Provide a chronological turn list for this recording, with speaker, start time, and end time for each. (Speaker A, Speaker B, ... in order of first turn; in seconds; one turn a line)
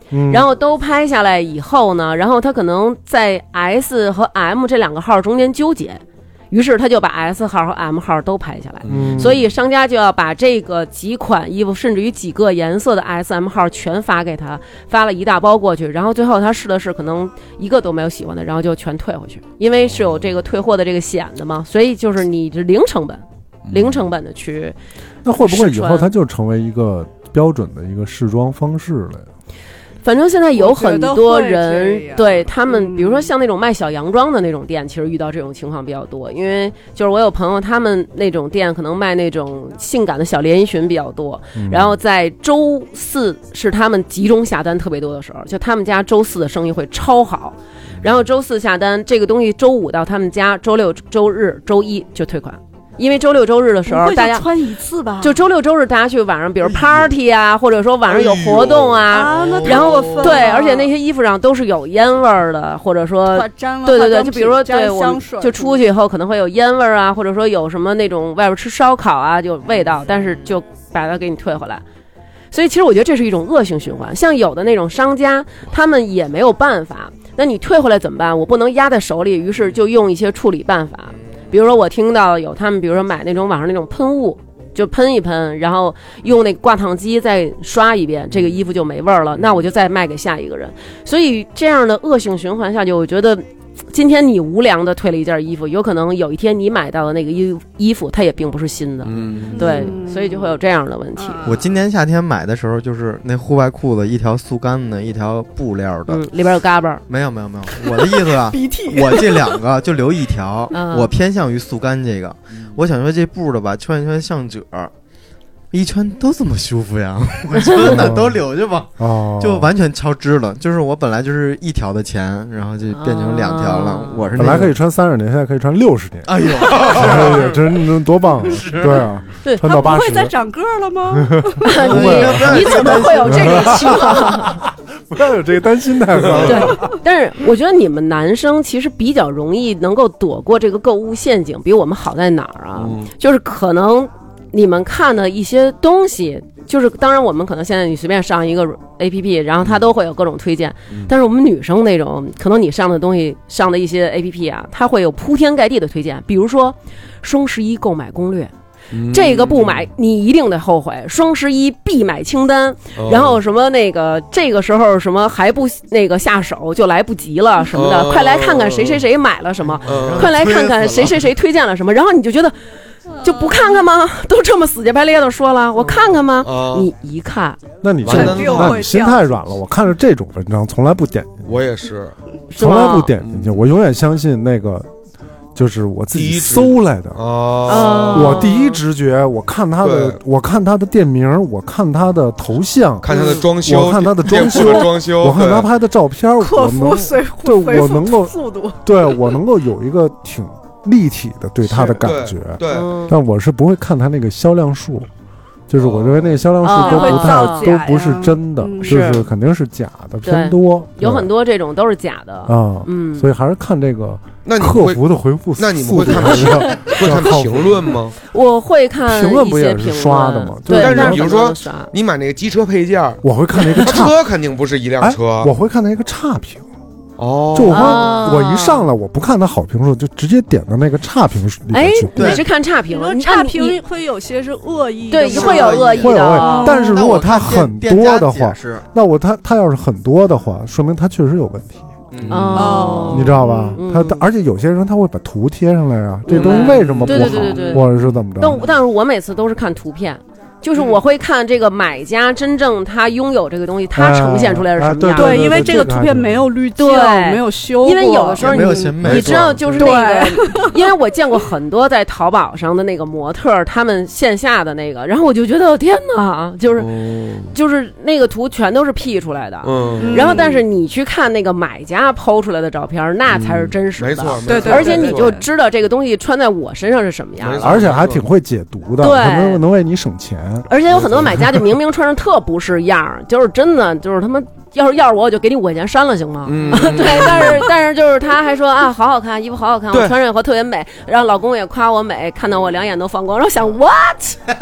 Speaker A: 0.1-0.4
Speaker B: 0.3-24.8
Speaker C: 8.8-9.4
Speaker A: 8.9-9.3
Speaker C: 23.6-24.1
Speaker A: 25.2-29.3
Speaker B: 25.4-26.1
Speaker B: 30.0-54.5
Speaker D: 30.5-33.3
Speaker A: 41.5-42.0
Speaker D: 53.9-55.4
Speaker B: 55.2-71.8
Speaker E: 56.6-57.1
Speaker C: 58.1-59.2
Speaker D: 59.1-60.9
Speaker E: 59.4-60.4
Speaker D: 63.3-65.8
Speaker B: 72.5-101.5
Speaker C: 99.0-99.9
Speaker D: 99.5-100.5
Speaker D: 101.2-101.7
Speaker E: 101.4-106.2
Speaker B: 106.1-107.0
Speaker E: 107.1-114.9
Speaker D: 108.5-109.6
Speaker B: 110.7-111.1
Speaker E: 115.7-118.9
Speaker A: 117.8-118.4
Speaker A: 119.0-119.7
Speaker E: 119.4-124.7
Speaker B: 122.9-124.2
Speaker A: 124.4-130.3
Speaker E: 126.2-127.5
Speaker C: 126.7-127.3
Speaker E: 128.5-129.0
Speaker D: 129.6-131.7
Speaker A: 131.2-132.6
Speaker B: 131.6-134.6
Speaker E: 131.8-134.2
Speaker A: 133.2-136.9
Speaker C: 136.2-136.6
Speaker B: 136.4-158.5
Speaker C: 142.8-143.1
Speaker C: 158.9-159.9
Speaker B: 159.1-172.6
Speaker C: 162.9-163.4
Speaker C: 167.7-169.0
Speaker E: 169.8-170.5
Speaker C: 169.8-171.1
Speaker B: 173.2-177.6
Speaker D: 173.2-173.7
Speaker C: 176.4-176.9
Speaker A: 177.8-181.6
Speaker C: 178.0-178.8
Speaker D: 178.1-179.3
Speaker C: 181.4-182.1
Speaker A: 182.5-184.9
Speaker B: 182.5-183.1
Speaker C: 183.1-183.7
Speaker A: 185.5-187.2
Speaker C: 186.1-188.4
Speaker B: 187.7-188.8
Speaker A: 188.1-205.1
Speaker C: 189.8-190.2
Speaker C: 193.0-195.7
Speaker B: 193.1-193.4
Speaker D: 196.4-199.2
Speaker C: 202.0-202.9
Speaker B: 202.7-203.2
Speaker A: 205.7-211.3
Speaker C: 205.8-206.4
Speaker B: 206.6-207.7
Speaker D: 206.8-209.2
Speaker B: 208.8-209.2
Speaker B: 210.2-213.3
Speaker A: 212.5-217.9
Speaker C: 214.4-215.0
Speaker C: 215.6-218.1
Speaker B: 218.3-221.9
Speaker A: 219.0-221.3
Speaker C: 220.7-223.2
Speaker A: 223.2-224.2
Speaker C: 223.8-225.5
Speaker A: 225.0-226.7
Speaker C: 227.2-228.1
Speaker A: 227.5-232.4
Speaker B: 227.7-228.9
Speaker B: 231.7-233.8
Speaker E: 232.1-232.4
Speaker D: 232.9-236.9
Speaker B: 235.1-236.7
Speaker E: 235.2-238.8
Speaker A: 236.0-241.9
Speaker E: 242.1-242.9
Speaker B: 242.3-244.2
Speaker D: 242.6-243.8
Speaker A: 243.1-248.6
Speaker B: 246.3-247.8
Speaker C: 246.3-247.8
Speaker B: 248.4-255.8
Speaker A: 253.9-256.5
Speaker D: 255.2-259.0
Speaker B: 256.8-266.9
Speaker E: 258.4-259.9
Speaker C: 259.0-259.8
Speaker D: 259.8-260.7
Speaker C: 266.8-267.5
Speaker B: 267.5-277.9
Speaker C: 269.6-270.4
Speaker D: 270.0-270.6
Speaker C: 273.3-275.4
Speaker D: 274.4-275.4
Speaker C: 277.4-278.2
Speaker A: 277.6-280.7
Speaker B: 279.0-279.6
Speaker B: 280.7-294.4
Speaker C: 280.9-281.6
Speaker C: 286.4-287.7